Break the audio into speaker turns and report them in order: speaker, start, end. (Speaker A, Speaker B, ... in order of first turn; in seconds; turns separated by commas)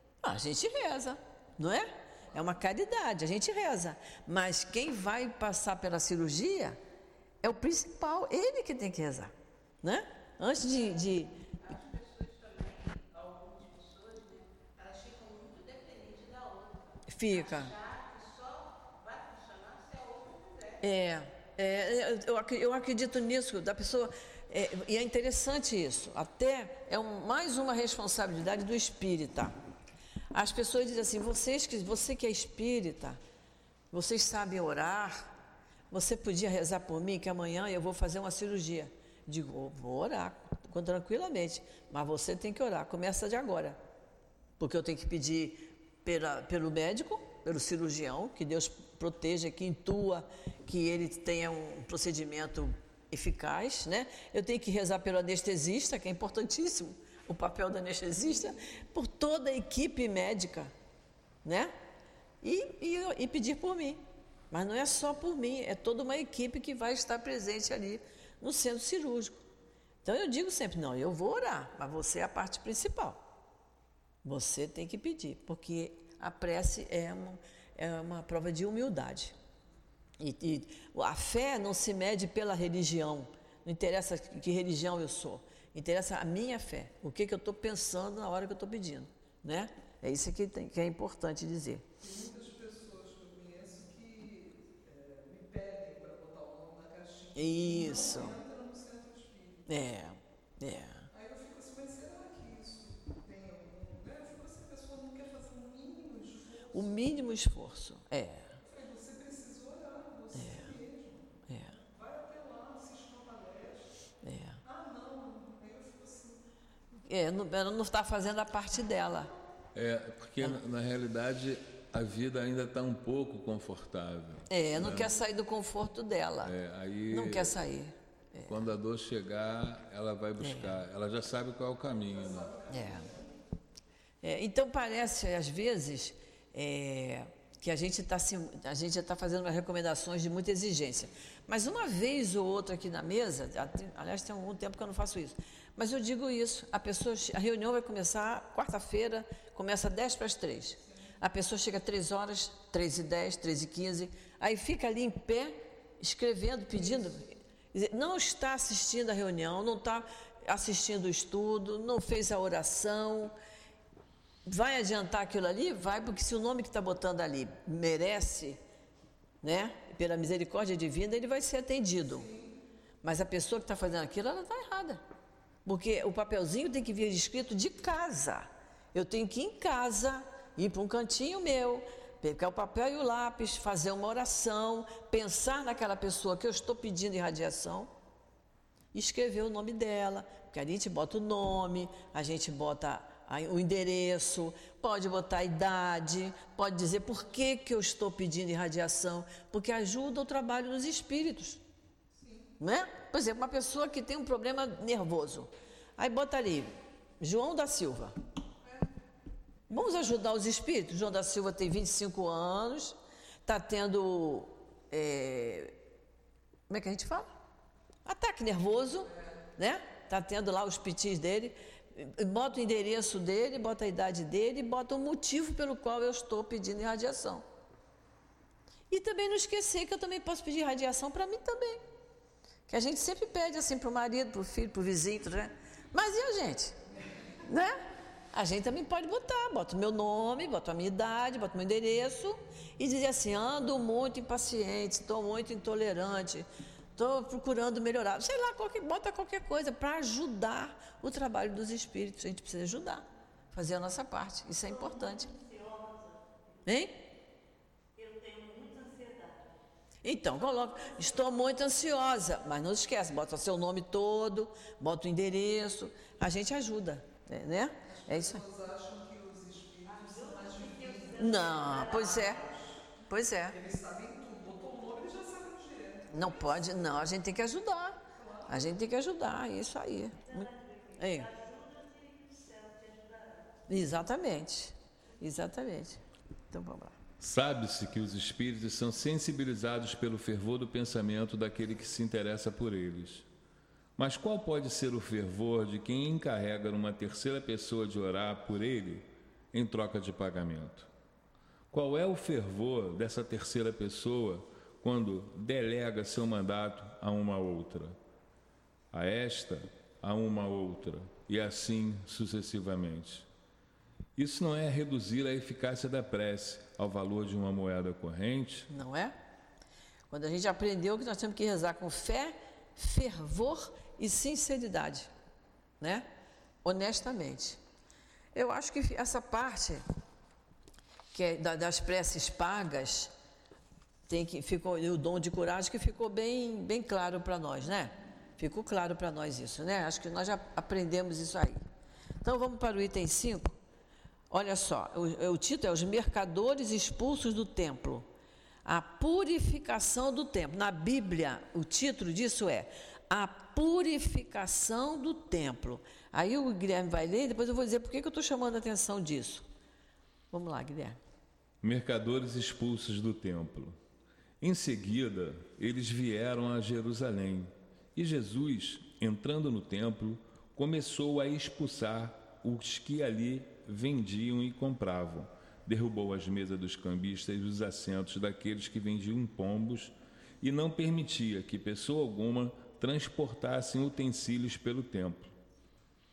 Speaker A: 0.2-6.8, Speaker A: 7.4-11.4, Speaker B: 11.6-20.8, Speaker A: 17.1-17.8, Speaker A: 20.8-29.5, Speaker A: 30.3-33.2, Speaker A: 33.9-35.3, Speaker A: 35.9-43.8, Speaker A: 44.6-60.7, Speaker A: 61.5-61.7, Speaker A: 62.4-69.4, Speaker A: 70.0-73.2, Speaker A: 74.2-79.3, Speaker A: 80.2-91.8, Speaker C: 92.0-99.7, Speaker A: 97.4-98.4, Speaker A: 99.7-101.1, Speaker C: 101.1-107.1, Speaker A: 106.7-108.5, Speaker C: 108.6-113.9, Speaker A: 110.4-110.6, Speaker A: 111.5-111.8, Speaker A: 114.2-114.6, Speaker C: 114.6-116.4, Speaker A: 117.1-119.3, Speaker D: 119.7-125.1, Speaker A: 124.5-126.5, Speaker D: 126.4-127.6, Speaker A: 127.1-128.5, Speaker D: 128.5-132.5, Speaker A: 130.4-130.8, Speaker C: 132.1-133.3, Speaker A: 132.7-133.1, Speaker A: 134.2-163.3, Speaker A: 164.4-168.6, Speaker A: 169.4-172.3, Speaker C: 172.2-172.5, Speaker A: 173.0-175.0, Speaker A: 175.7-187.9, Speaker A: 188.9-201.6, Speaker C: 202.2-202.5, Speaker A: 202.6-208.2, Speaker A: 209.7-215.8, Speaker A: 216.7-217.3, Speaker A: 218.1-227.4, Speaker A: 228.9-231.8, Speaker A: 232.7-236.8, Speaker A: 237.5-237.8, Speaker A: 238.3-255.3, Speaker B: 254.7-256.3, Speaker A: 256.7-257.0, Speaker B: 257.9-259.5, Speaker A: 260.0-268.4, Speaker C: 267.9-272.8, Speaker B: 269.9-272.3, Speaker A: 271.2-272.4, Speaker A: 273.1-273.6, Speaker C: 273.5-276.8, Speaker A: 276.1-281.3, Speaker C: 278.1-278.7, Speaker B: 280.3-283.6, Speaker A: 283.7-286.0, Speaker A: 286.5-287.0, Speaker D: 287.2-293.3, Speaker D: 294.0-300.9, Speaker D: 301.7-308.0, Speaker D: 308.9-313.3, Speaker D: 314.2-318.7, Speaker A: 318.7-319.1, Speaker A: 320.1-325.1, Speaker A: 325.8-326.1, Speaker A: 326.6-327.6, Speaker A: 328.3-329.8, Speaker A: 331.1-333.1, Speaker A: 334.1-341.6, Speaker A: 342.2-343.6, Speaker A: 344.3-348.1, Speaker A: 348.6-359.5, Speaker A: 360.3-361.0, Speaker D: 361.6-363.8, Speaker D: 364.4-385.3